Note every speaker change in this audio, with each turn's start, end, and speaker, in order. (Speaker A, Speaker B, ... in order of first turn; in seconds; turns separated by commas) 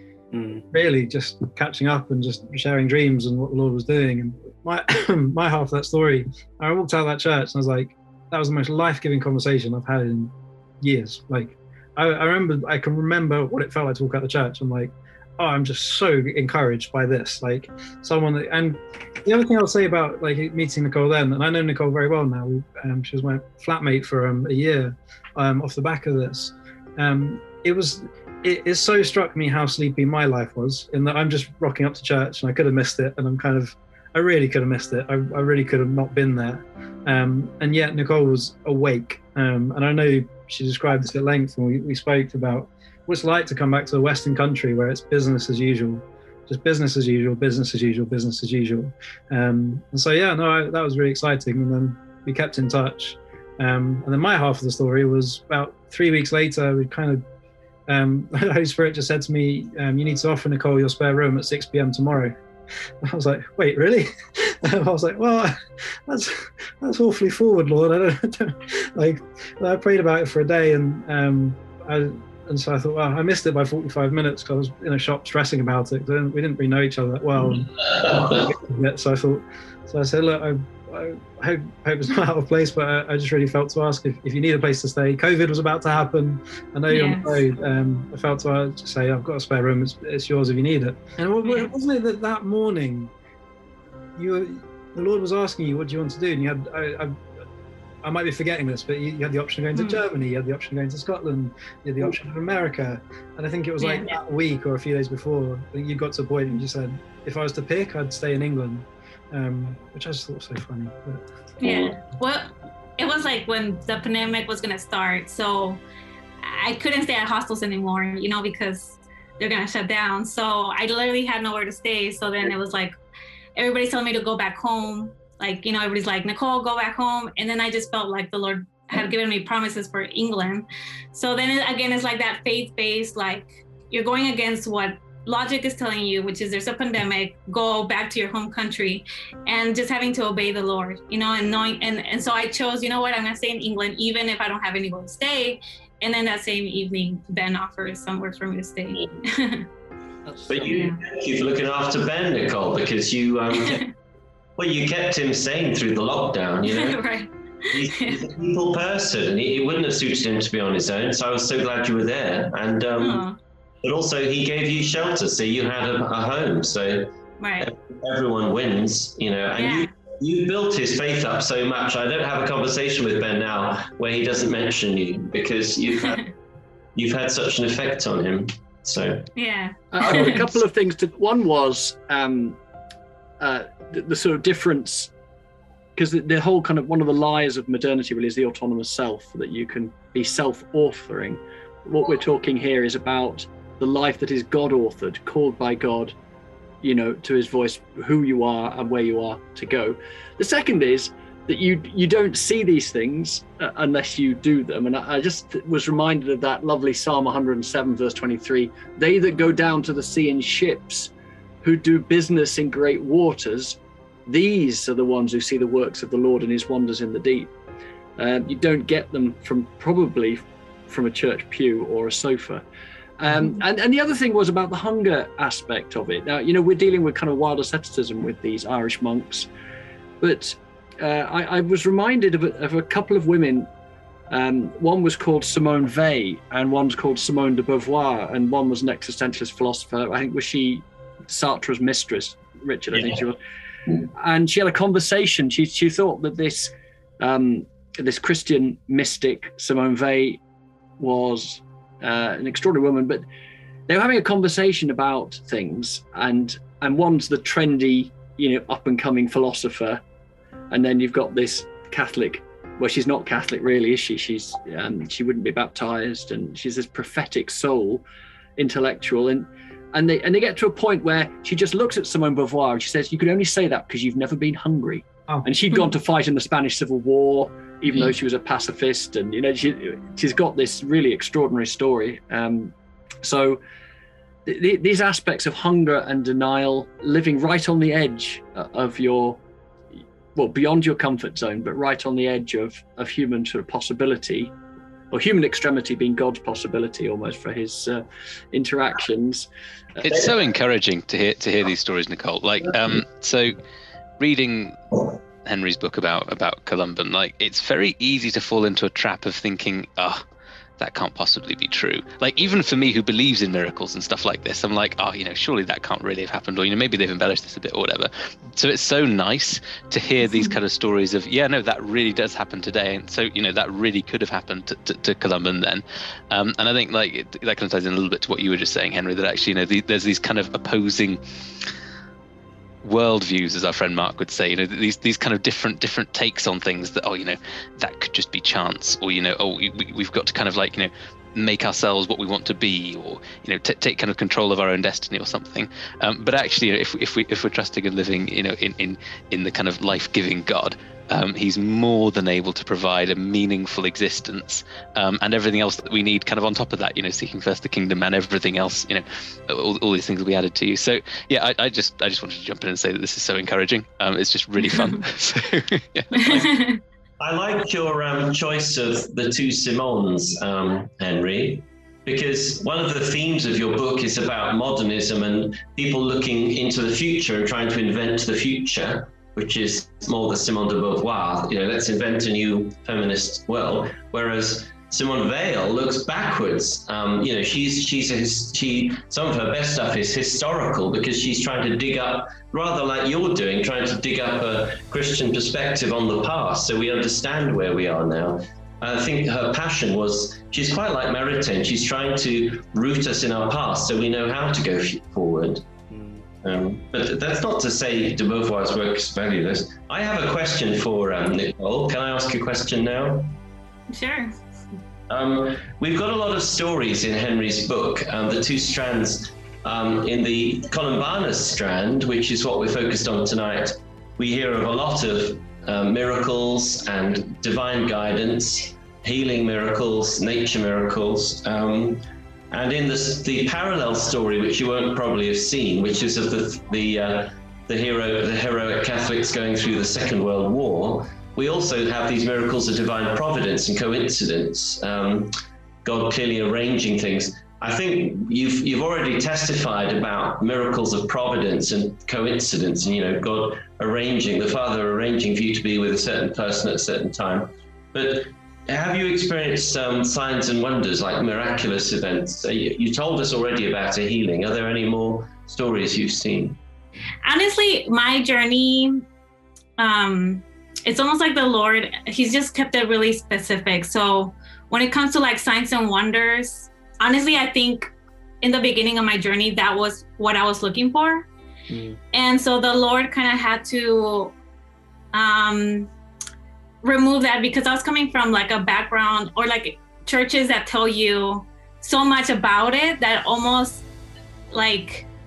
Speaker A: 0.3-0.6, Speaker B: 0.7-57.2, Speaker B: 57.9-62.3, Speaker B: 63.0-93.1, Speaker C: 77.4-78.5, Speaker D: 86.9-87.4, Speaker D: 91.4-91.7, Speaker B: 94.2-97.2, Speaker B: 98.0-111.6, Speaker D: 99.8-100.0, Speaker D: 103.8-104.2, Speaker D: 111.6-115.8, Speaker C: 111.6-111.9, Speaker D: 116.4-122.9, Speaker D: 123.5-149.7, Speaker A: 150.2-150.7, Speaker C: 150.5-153.8, Speaker D: 150.7-151.0, Speaker D: 153.6-153.9, Speaker C: 154.6-157.0, Speaker D: 156.7-158.2, Speaker C: 157.7-163.2, Speaker D: 163.0-163.4, Speaker C: 163.8-176.2, Speaker D: 167.4-167.7, Speaker D: 169.6-169.9, Speaker C: 176.9-179.3, Speaker D: 179.3-180.5, Speaker A: 179.9-182.6, Speaker A: 183.4-185.1, Speaker A: 185.9-196.1, Speaker A: 196.8-211.1, Speaker A: 211.6-217.5, Speaker A: 218.2-222.6, Speaker A: 223.2-229.5, Speaker A: 230.2-233.7, Speaker A: 234.3-243.4, Speaker C: 242.9-243.2, Speaker A: 244.1-250.4, Speaker A: 251.0-253.2, Speaker A: 253.9-260.0, Speaker A: 260.7-268.0, Speaker A: 268.6-283.6, Speaker A: 284.4-289.4, Speaker A: 289.9-294.5, Speaker A: 295.1-300.2, Speaker E: 300.0-303.6, Speaker E: 304.2-304.8, Speaker E: 305.4-310.2, Speaker E: 310.8-331.2, Speaker D: 320.2-320.6, Speaker E: 332.8-366.6, Speaker D: 366.3-366.8, Speaker C: 367.2-405.6, Speaker A: 405.9-406.2, Speaker C: 406.4-413.4, Speaker D: 413.9-414.3, Speaker C: 415.1-445.3, Speaker C: 445.8-466.6, Speaker D: 467.2-469.0, Speaker D: 469.8-477.9, Speaker D: 478.4-481.3, Speaker A: 481.7-482.0, Speaker D: 482.1-484.3, Speaker D: 485.1-485.9, Speaker D: 486.8-493.8, Speaker D: 494.5-495.1